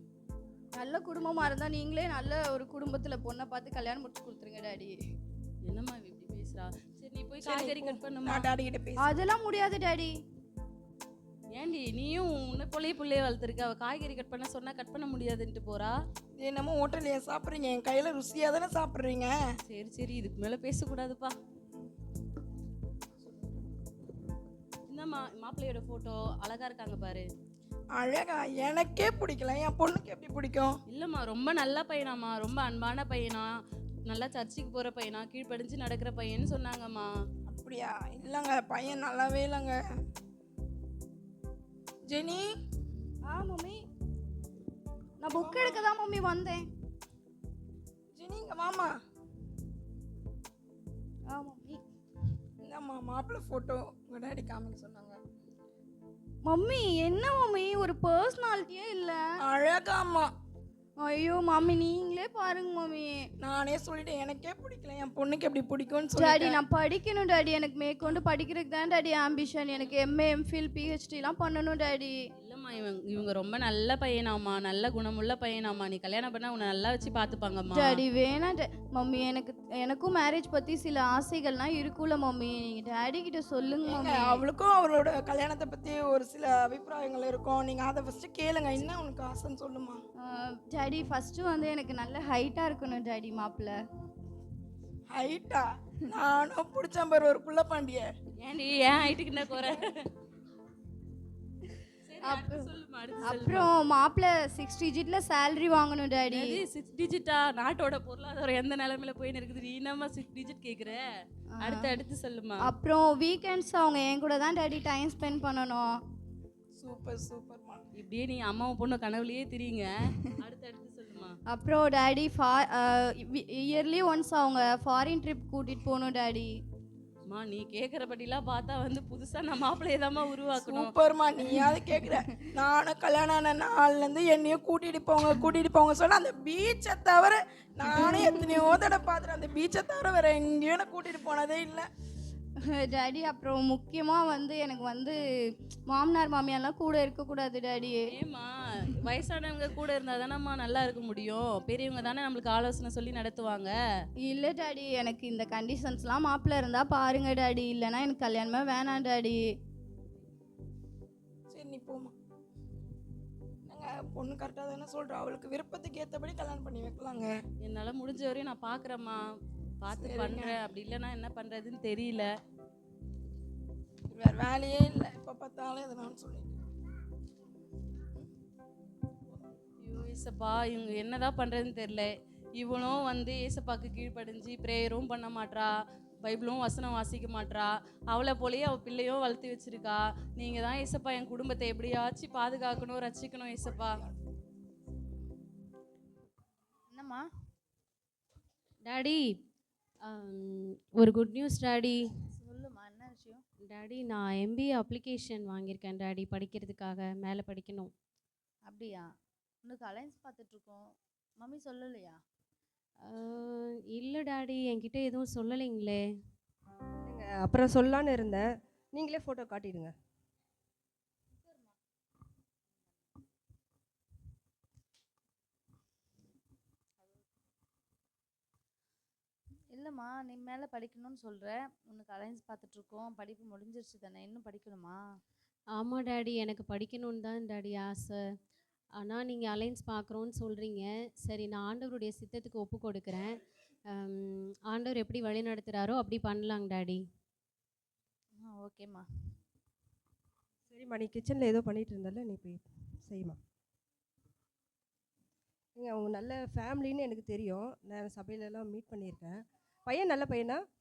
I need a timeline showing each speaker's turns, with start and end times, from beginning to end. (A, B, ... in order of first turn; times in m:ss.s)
0:00.8-0:05.0 A
0:05.7-0:08.5 B
0:07.4-0:09.1 C
0:09.0-0:10.1 A
0:11.5-0:16.0 B
0:16.4-0:19.3 C
0:19.7-0:21.4 B
0:24.9-0:27.3 B
0:27.9-0:30.8 C
0:30.9-0:33.5 B
0:34.1-0:37.1 B
0:37.5-0:39.8 C
0:42.1-0:42.5 C
0:43.2-0:43.8 A
0:45.2-0:46.6 A
0:45.3-0:45.8 C
0:48.1-0:48.9 C
0:51.3-0:51.8 A
0:52.6-0:55.2 C
0:56.4-0:59.2 A
0:59.4-1:00.3 C
1:01.0-1:03.2 A
1:03.4-1:06.6 C
1:06.2-1:12.1 A
1:12.4-1:18.0 B
1:17.7-1:24.4 A
1:23.8-1:30.0 C
1:30.2-1:33.8 A
1:35.1-1:38.1 C
1:38.4-1:39.9 B
1:42.0-1:43.7 B
1:42.2-1:42.7 A
1:43.2-1:46.6 A
1:46.3-1:51.0 B
1:51.6-1:51.9 A
1:51.6-1:52.6 B
1:52.6-1:56.0 A
1:56.8-1:57.8 C
1:58.0-2:01.4 B
2:01.5-2:06.5 A
2:07.3-2:10.9 B
2:10.6-2:21.9 C
2:11.4-2:12.2 A
2:17.9-2:18.4 A
2:22.7-2:25.2 A
2:25.9-2:28.1 A
2:28.1-2:33.7 B
2:34.2-2:39.4 A
2:41.5-2:42.1 C
2:43.7-2:47.4 C
2:47.6-2:49.2 B
2:49.8-2:52.3 B
2:49.9-2:50.6 C
2:54.1-2:56.6 C
2:59.8-3:05.7 B
3:06.2-3:14.0 B
3:13.6-3:14.2 C
3:16.9-3:17.2 D
3:18.8-3:19.4 E
3:20.0-3:22.3 E
3:22.3-3:23.4 D
3:23.6-3:27.9 E
3:28.6-3:29.0 D
3:29.6-3:30.8 D
3:31.4-3:32.2 D
3:33.0-3:36.0 E
3:37.0-3:39.9 F
3:49.8-3:55.0 D
3:55.8-3:58.2 E
3:59.0-4:07.0 E
4:08.4-4:09.0 D
4:10.7-4:13.4 F
4:15.8-4:20.6 F